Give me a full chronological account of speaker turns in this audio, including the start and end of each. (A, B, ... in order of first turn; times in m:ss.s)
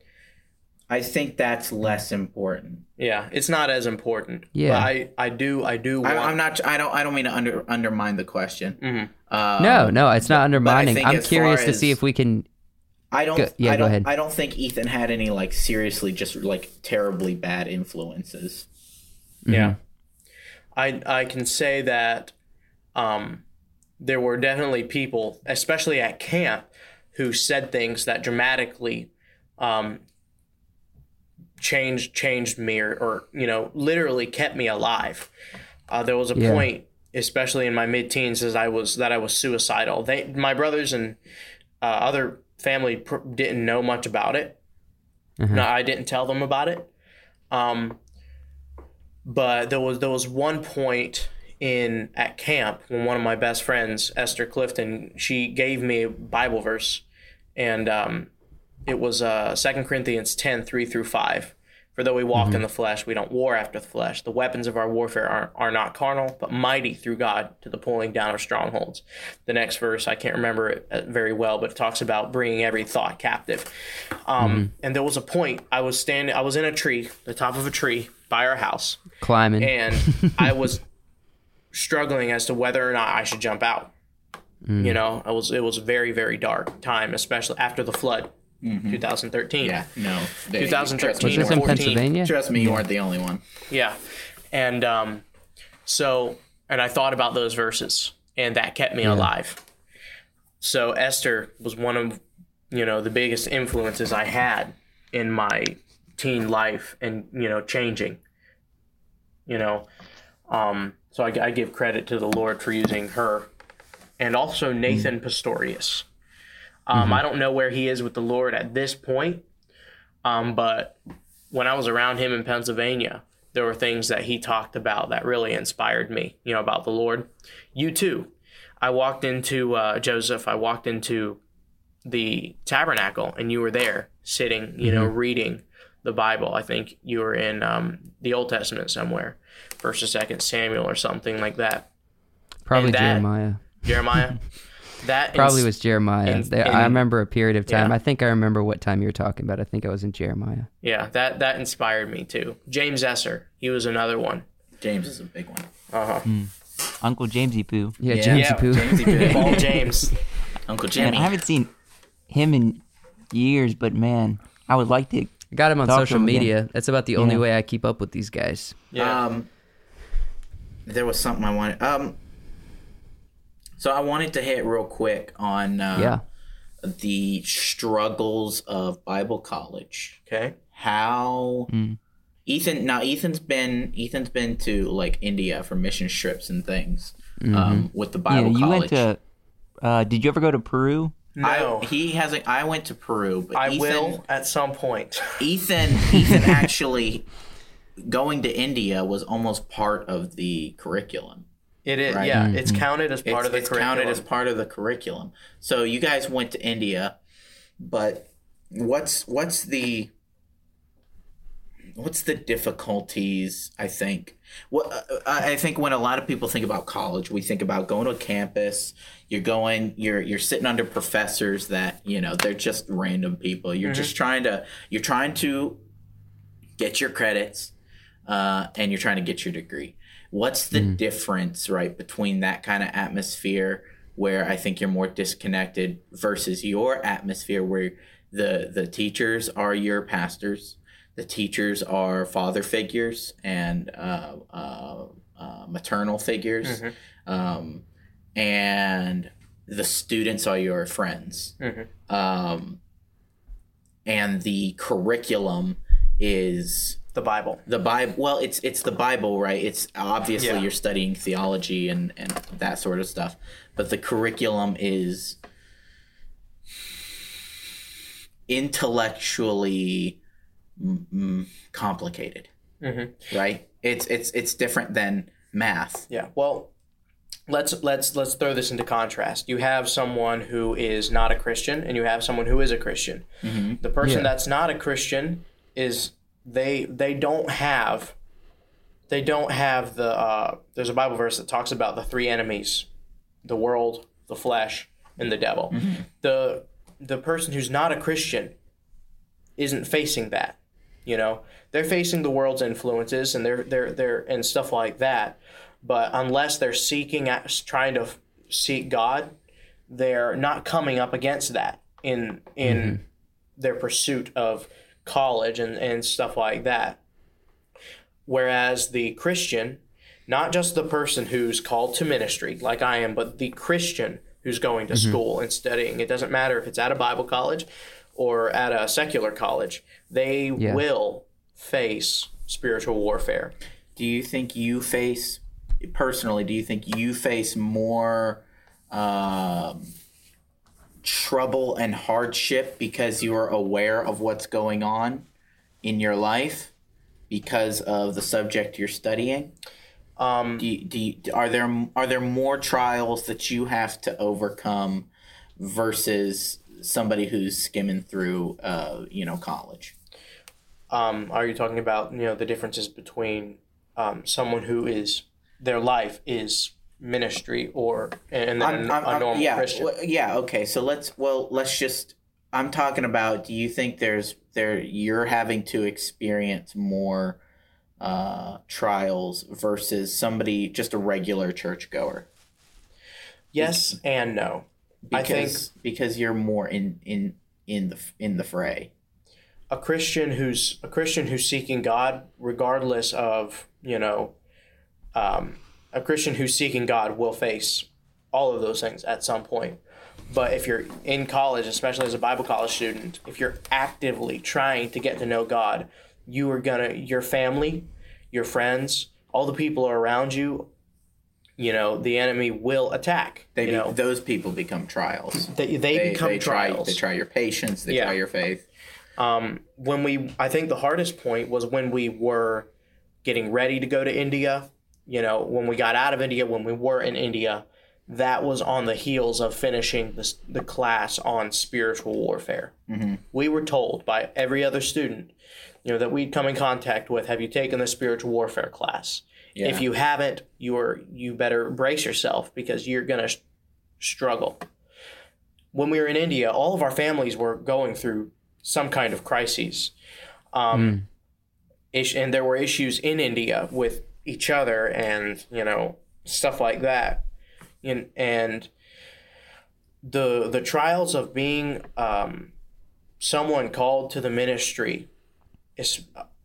0:00.9-0:02.8 A
0:03.0-0:06.4 B
0:04.6-0:04.9 C
0:06.0-0:12.0 A
0:08.8-0:09.1 B
0:09.6-0:12.5 C
0:13.1-0:18.7 A
0:13.4-0:14.1 C
0:19.4-0:19.8 C
0:19.5-0:19.8 B
0:20.8-0:22.3 B
0:23.0-0:23.4 B
0:24.0-0:30.0 B
0:31.6-0:35.3 B
0:35.9-0:41.2 B
0:36.4-0:36.7 C
0:41.8-0:44.6 B
0:45.4-0:45.7 C
0:45.5-0:46.9 B
0:47.5-0:48.0 B
0:49.2-0:57.0 B
0:57.6-0:58.3 B
0:58.9-1:13.7 B
1:02.4-1:02.6 C
1:14.2-1:20.8 B
1:14.4-1:14.7 C
1:19.2-1:20.5 C
1:21.7-1:23.9 B
1:24.7-1:25.0 C
1:24.8-1:28.4 B
1:28.6-1:29.0 A
1:28.9-1:29.8 B
1:29.6-1:33.4 A
1:30.5-1:32.0 B
1:31.2-1:32.4 C
1:33.7-1:34.0 B
1:34.5-1:35.2 B
1:35.9-1:39.6 B
1:39.0-1:39.3 C
1:40.6-1:48.2 B
1:49.5-1:49.9 B
1:50.5-1:53.5 B
1:54.2-1:56.0 B
1:56.9-1:59.4 B
1:56.9-1:57.2 C
2:00.2-2:01.0 B
2:01.5-2:11.4 B
2:12.0-2:21.9 B
2:14.8-2:15.1 C
2:22.7-2:23.8 C
2:22.7-2:27.0 B
2:25.3-2:30.7 C
2:27.7-2:28.0 B
2:30.8-2:34.4 B
2:34.8-2:35.7 A
2:35.9-2:36.3 B
2:36.2-2:38.0 D
2:38.0-2:39.8 C
2:38.1-2:39.8 A
2:38.3-2:40.2 B
2:40.7-2:41.4 A
2:41.0-2:41.7 D
2:42.3-2:46.5 D
2:45.5-2:48.8 C
2:47.2-2:47.4 D
2:48.9-2:49.2 B
2:49.0-2:49.5 A
2:50.9-2:52.2 A
2:53.8-2:56.2 A
2:56.0-2:56.2 C
2:56.8-3:00.2 A
3:00.3-3:00.6 B
3:00.7-3:01.7 A
3:01.7-3:02.0 D
3:02.5-3:09.1 A
3:07.4-3:07.9 C
3:08.3-3:09.2 D
3:09.8-3:11.2 D
3:11.4-3:11.9 B
3:11.4-3:14.2 A
3:13.6-3:15.5 B
3:15.4-3:17.3 A
3:18.0-3:21.5 A
3:21.8-3:24.2 B
3:22.1-3:22.4 A
3:22.3-3:22.6 C
3:23.2-3:27.2 A
3:27.8-3:30.1 A
3:32.0-3:45.8 A
3:43.8-3:44.1 B
3:46.8-3:47.7 A
3:48.3-4:07.8 A
4:06.6-4:06.9 B
4:08.4-4:11.6 A
4:11.6-4:11.9 B
4:12.1-4:12.8 A
4:14.1-4:17.0 A
4:17.1-4:17.6 B
4:17.7-4:25.4 A
4:20.4-4:20.6 B
4:28.5-4:30.2 A
4:30.8-4:32.5 A
4:32.8-4:33.3 B
4:33.3-4:36.1 A
4:36.1-4:36.7 B
4:37.5-4:43.3 B
4:43.4-4:43.8 A
4:43.8-4:48.2 B
4:44.0-4:44.3 C
4:49.1-4:52.9 B
4:53.4-4:58.5 B
4:55.7-4:56.0 A
4:59.6-5:09.3 B
5:09.9-5:13.0 B
5:12.6-5:13.0 C
5:13.6-5:17.0 B
5:18.3-5:33.5 B
5:24.9-5:25.2 C
5:30.6-5:30.8 C
5:34.0-5:39.9 A
5:41.0-5:45.3 A
5:45.8-5:46.7 A
5:47.3-5:49.5 A
5:50.2-5:50.7 B
5:50.6-5:59.9 A
6:00.9-6:09.9 B
6:08.6-6:17.4 A
6:18.0-6:22.3 A
6:23.5-6:25.6 B
6:25.0-6:28.9 A
6:29.7-6:34.4 B
6:35.2-6:50.7 B
6:51.6-6:54.0 B
6:53.6-6:58.6 A
6:55.5-6:57.0 B
6:57.9-6:58.2 B
6:59.2-7:02.7 B
7:03.2-7:12.7 B
7:12.9-7:13.2 A
7:13.3-7:15.3 B
7:15.8-7:23.4 B
7:19.6-7:19.8 A
7:24.0-7:24.6 B
7:25.7-7:29.9 B
7:30.5-7:31.0 B
7:30.7-7:31.0 C
7:31.9-7:37.2 B
7:37.8-7:38.7 B
7:40.0-7:42.5 B
7:43.2-7:45.1 B
7:45.8-7:46.1 B